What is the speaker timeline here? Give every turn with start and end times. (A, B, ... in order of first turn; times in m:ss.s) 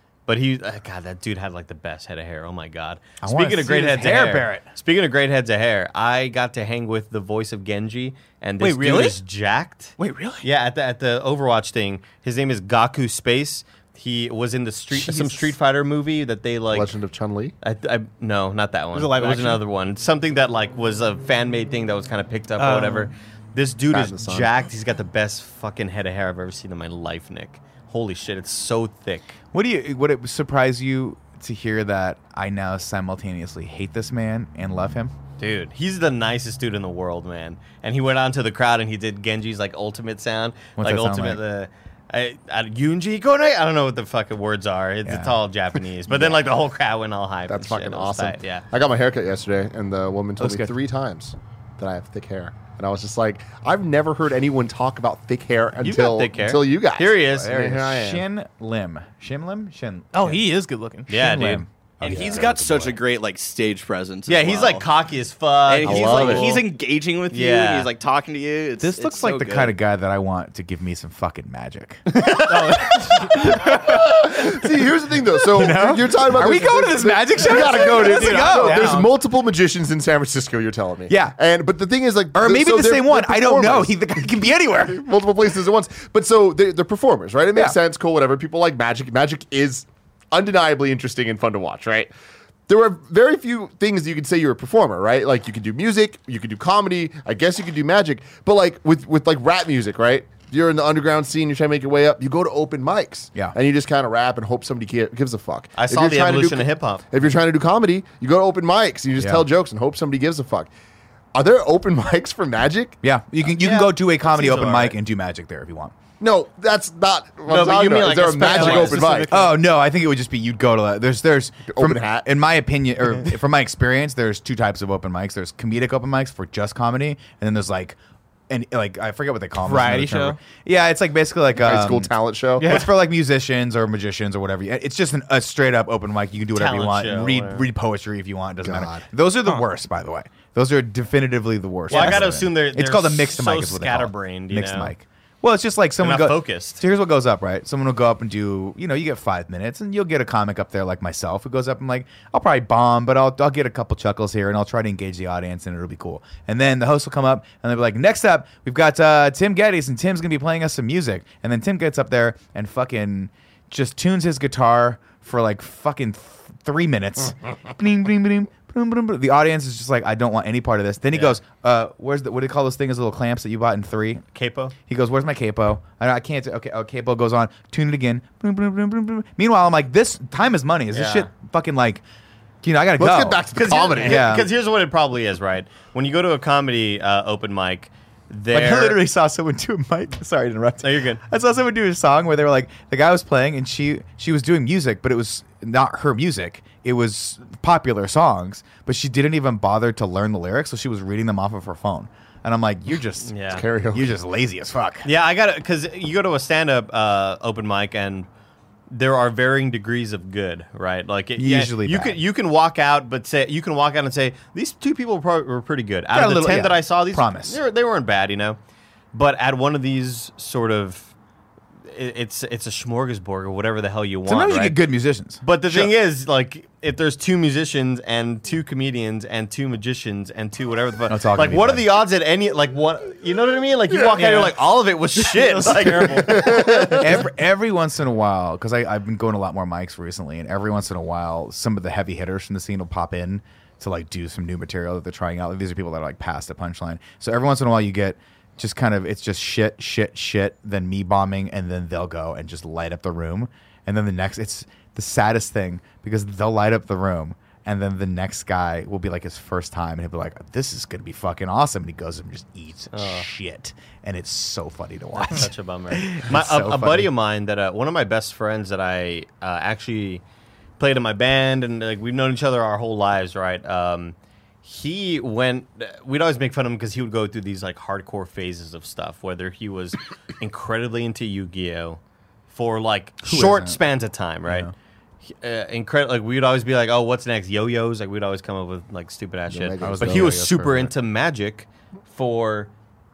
0:00.3-0:16.9 A
0:03.2-0:04.7 B
0:08.6-0:09.2 C
0:10.0-0:10.5 C
0:14.9-0:15.5 C
0:16.7-0:17.6 D
0:17.6-0:29.4 A
0:18.9-0:19.6 C
0:22.6-0:23.1 C
0:23.9-0:24.5 D
0:29.5-0:35.1 B
0:35.4-0:48.6 A
0:40.8-0:41.4 B
0:45.0-0:45.3 B
0:46.1-0:46.5 D
0:47.5-0:58.2 D
0:50.4-0:50.7 B
0:55.8-0:57.5 A
0:57.3-1:00.4 B
1:00.1-1:01.4 C
1:01.1-1:01.6 A
1:01.1-1:03.0 B
1:02.0-1:04.9 E
1:04.3-1:06.7 A
1:05.7-1:09.7 E
1:05.8-1:06.6 D
1:07.3-1:07.9 A
1:08.8-1:12.0 B
1:12.1-1:13.0 A
1:12.3-1:13.8 C
1:13.4-1:14.6 B
1:13.7-1:24.0 D
1:15.5-1:19.1 B
1:17.4-1:19.1 C
1:21.1-1:21.4 B
1:22.3-1:25.0 B
1:24.8-1:32.1 D
1:32.7-1:50.7 D
1:45.8-1:47.0 A
1:49.2-1:49.5 B
1:51.3-1:53.0 D
1:53.0-1:55.9 B
1:53.4-1:55.0 A
1:56.2-1:59.3 D
1:57.5-1:59.5 A
1:58.4-1:59.4 C
1:59.3-2:08.0 B
2:01.7-2:02.3 D
2:08.5-2:54.2 B
2:09.6-2:10.4 C
2:11.6-2:12.7 D
2:12.6-2:12.9 C
2:16.5-2:17.7 A
2:18.6-2:19.0 D
2:21.9-2:24.9 A
2:21.9-2:22.3 C
2:26.0-2:26.8 A
2:51.1-2:51.4 A
2:54.4-2:54.7 A
2:54.9-3:02.0 B
3:00.9-3:01.3 A
3:02.6-3:03.4 B
3:03.0-3:04.3 D
3:03.5-3:09.0 A
3:04.0-3:04.5 B
3:08.5-3:23.3 B
3:10.8-3:11.2 A
3:23.2-3:23.6 A
3:23.5-3:24.1 D
3:23.9-3:25.1 B
3:25.0-3:28.3 A
3:28.9-3:38.6 A
3:31.4-3:32.2 B
3:36.1-3:37.6 B
3:39.1-3:41.1 A
3:41.9-3:44.8 A
3:44.3-3:46.0 B
3:45.4-3:57.2 A
3:51.1-3:51.9 B
3:53.9-3:54.6 C
3:55.2-3:56.7 C
3:56.2-3:57.2 D
3:56.9-4:27.1 B
4:22.9-4:23.3 A
4:25.2-4:30.2 A
4:30.8-4:44.7 A
4:43.2-4:43.8 B
4:44.5-4:44.7 B
4:45.2-4:52.7 A
4:49.5-4:50.4 D
4:49.8-4:50.9 B